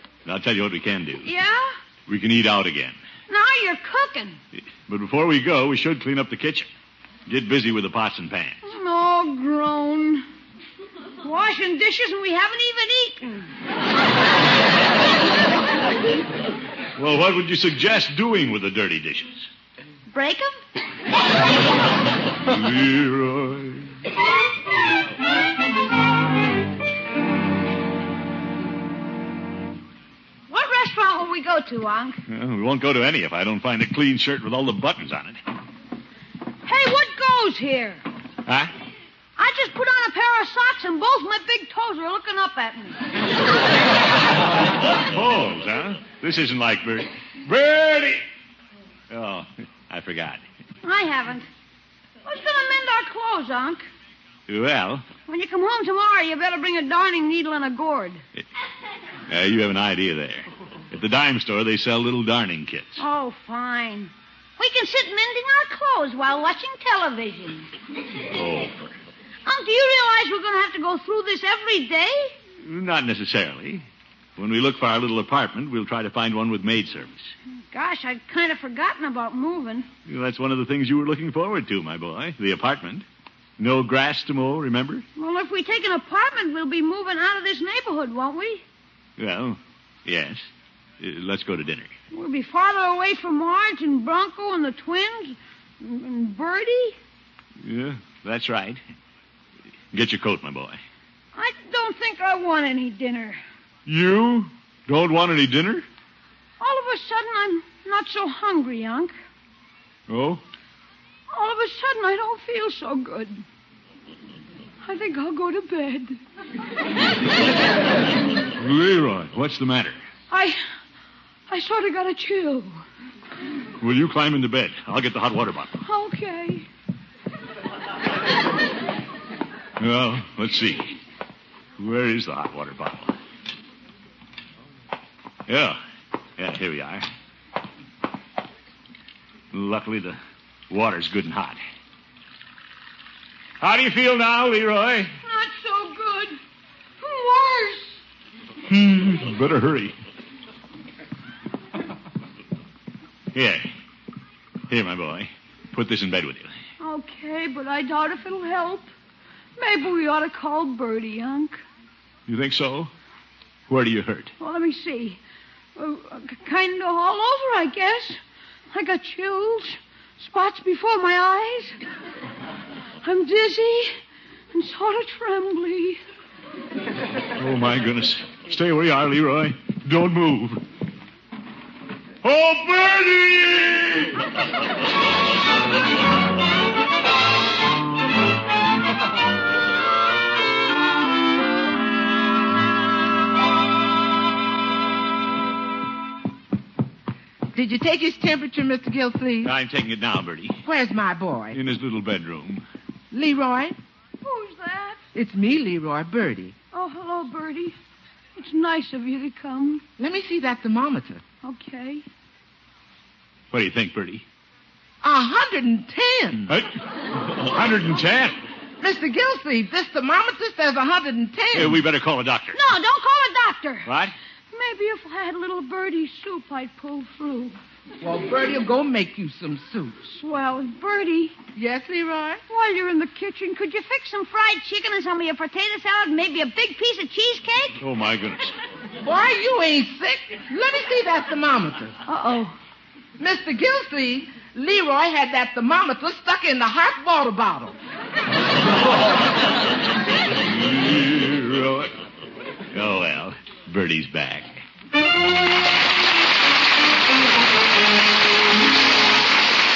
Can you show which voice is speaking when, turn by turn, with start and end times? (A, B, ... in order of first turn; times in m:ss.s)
0:00.2-0:01.3 A
0:01.2-0:01.7 B
0:02.1-0:03.0 A
0:03.3-0:04.4 B
0:04.9-0:06.7 A
0:07.3-0:08.6 A
0:08.6-0:10.2 B
0:11.2-0:13.5 B
0:17.0-0:19.5 A
0:20.1-0:20.6 B
0:22.4-0:24.0 A
0:30.5-0:32.2 B
0:32.3-0:35.4 A
0:36.7-0:38.0 B
0:38.4-0:38.7 A
0:39.4-0:43.1 B
0:44.8-0:48.2 A
0:49.1-0:50.4 A
0:50.8-0:51.5 B
0:52.2-0:53.9 B
0:54.5-0:55.1 A
0:55.3-0:58.2 B
0:59.3-1:03.0 A
1:03.0-1:07.7 B
1:08.3-1:08.9 A
1:09.4-1:12.3 B
1:12.6-1:13.8 A
1:14.4-1:17.3 A
1:17.7-1:19.9 B
1:20.0-1:23.0 A
1:23.6-1:25.0 A
1:25.2-1:28.6 B
1:29.2-1:30.5 A
1:31.0-1:31.9 A
1:32.1-1:37.0 B
1:37.6-1:38.8 A
1:39.9-1:40.8 A
1:41.3-1:43.4 B
1:43.8-1:45.8 A
1:46.6-1:49.1 B
1:50.1-1:50.4 A
1:51.3-1:53.4 B
1:54.8-1:56.2 B
1:58.6-2:00.0 A
2:00.3-2:00.6 B
2:01.5-2:02.8 B
2:03.8-2:05.8 A
2:05.8-2:06.6 B
2:09.8-2:10.9 A
2:11.8-2:13.2 A
2:15.5-2:15.8 A
2:16.4-2:17.0 A
2:19.5-2:20.2 A
2:20.7-2:21.6 A
2:23.6-2:25.1 A
2:25.2-2:26.4 B
2:27.0-2:28.0 B
2:28.6-2:29.9 A
2:33.3-2:33.7 A
2:34.7-2:36.5 A
2:36.8-2:38.9 B
2:39.6-2:41.6 B
2:42.3-2:42.9 A
2:43.7-2:44.3 A
2:44.4-2:45.2 B
2:45.7-2:48.2 B
2:48.7-2:51.8 B
2:53.0-2:53.9 B
2:54.5-2:56.0 B
2:57.4-3:00.6 A
3:02.2-3:04.3 A
3:17.5-3:19.5 C
3:19.4-3:20.6 A
3:20.6-3:21.6 C
3:21.5-3:22.6 A
3:23.1-3:23.8 C
3:24.2-3:25.0 B
3:25.1-3:26.5 C
3:26.7-3:27.8 B
3:28.4-3:29.8 B
3:30.0-3:31.2 C
3:31.4-3:32.0 B
3:33.5-3:34.2 A
3:35.0-3:36.5 C
3:36.5-3:38.4 A
3:38.8-3:41.8 C
3:41.5-3:42.6 A
3:42.5-3:43.9 B
3:43.8-3:44.1 A
3:44.5-3:47.6 B
3:48.0-3:50.1 C
3:50.1-3:51.4 B
3:51.5-3:52.4 C
3:52.5-3:57.8 B
3:57.8-3:58.6 A
3:59.0-4:02.0 C
4:02.0-4:02.6 B
4:03.2-4:07.8 C
4:10.4-4:11.9 A
4:12.7-4:14.6 A